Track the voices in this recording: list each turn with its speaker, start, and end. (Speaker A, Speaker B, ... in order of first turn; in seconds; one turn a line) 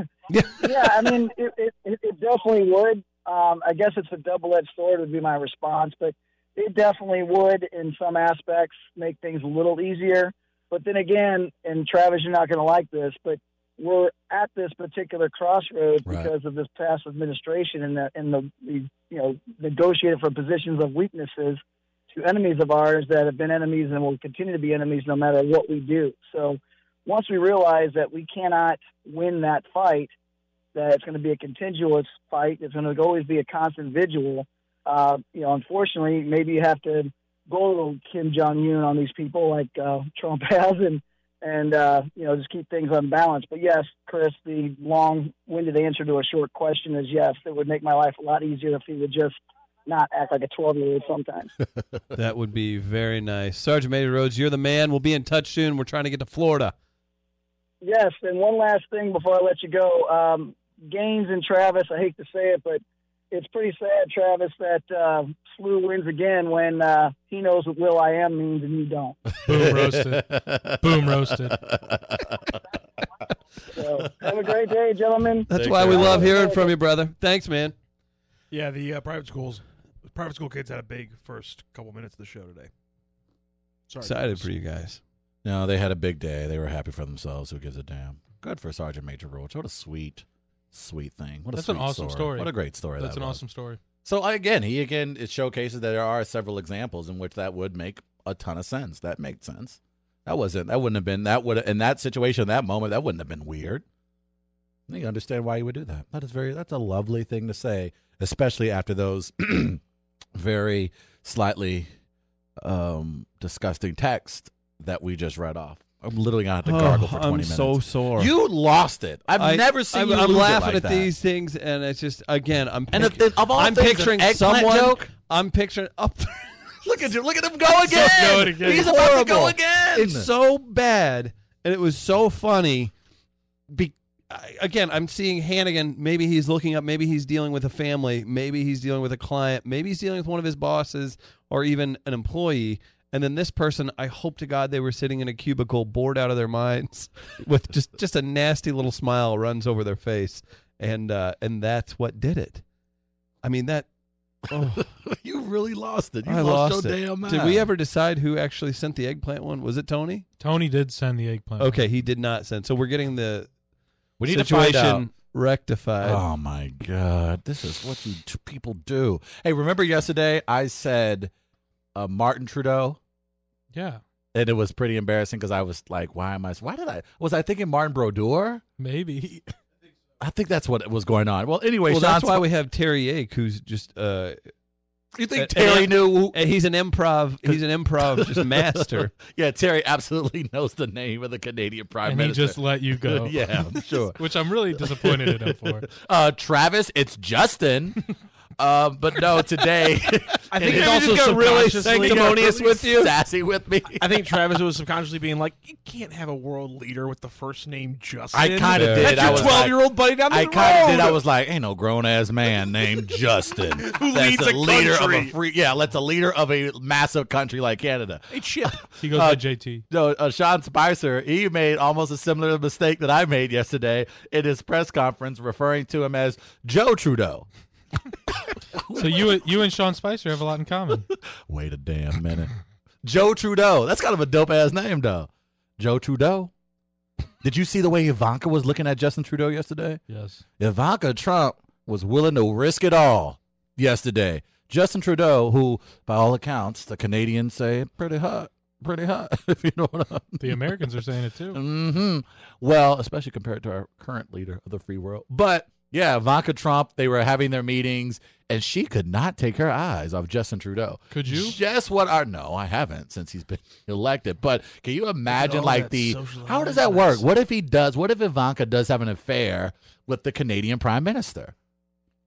Speaker A: 0.3-0.9
Speaker B: 0.6-21.6
Speaker C: 16.1-16.3
Speaker B: 22.1-30.1
Speaker B: 30.7-51.5
Speaker A: 52.1-56.7
Speaker B: 57.8-69.4
Speaker D: 69.5-71.6
Speaker C: 69.5-71.0
Speaker C: 71.6-72.6
Speaker B: 73.7-76.8
Speaker A: 75.5-77.8
Speaker C: 75.5-76.4
Speaker E: 78.5-82.7
Speaker E: 83.9-84.5
Speaker A: 84.0-85.0
Speaker C: 85.4-93.4
Speaker D: 91.5-93.8
Speaker C: 94.0-103.8
Speaker C: 104.9-109.8
Speaker C: 110.4-111.9
Speaker C: 112.6-121.1
Speaker A: 116.7-118.3
Speaker A: 119.4-126.6
Speaker C: 122.9-125.1
Speaker C: 126.8-130.3
Speaker D: 127.9-128.8
Speaker A: 128.7-132.9
Speaker A: 133.7-152.6
Speaker A: 153.4-153.9
Speaker A: 154.5-154.8
Speaker C: 154.8-157.7
Speaker A: 156.3-160.3
Speaker D: 160.4-161.8
Speaker A: 161.6-163.5
Speaker C: 164.2-165.1
Speaker A: 164.3-166.2
Speaker C: 166.0-171.3
Speaker C: 171.9-173.0
Speaker D: 173.7-174.0
Speaker C: 174.3-178.6
Speaker D: 178.8-179.5
Speaker C: 180.2-182.5
Speaker A: 181.9-184.4
Speaker C: 185.2-186.4
Speaker A: 185.3-189.2
Speaker C: 187.4-198.0
Speaker D: 192.1-195.9
Speaker C: 198.6-204.4
Speaker E: 200.5-203.0
Speaker A: 200.7-203.0
Speaker E: 203.9-211.2
Speaker C: 208.3-218.3
Speaker A: 208.7-209.6
Speaker E: 213.8-215.3
Speaker E: 218.3-218.9
Speaker D: 219.0-219.8
Speaker C: 219.1-227.5
Speaker C: 228.9-229.4
Speaker D: 228.9-231.1
Speaker C: 231.5-232.5
Speaker C: 233.0-236.5
Speaker C: 237.4-240.0
Speaker D: 240.1-240.4
Speaker C: 240.6-250.7
Speaker D: 250.4-251.6
Speaker C: 251.5-271.5
Speaker D: 261.1-261.6
Speaker E: 265.3-267.2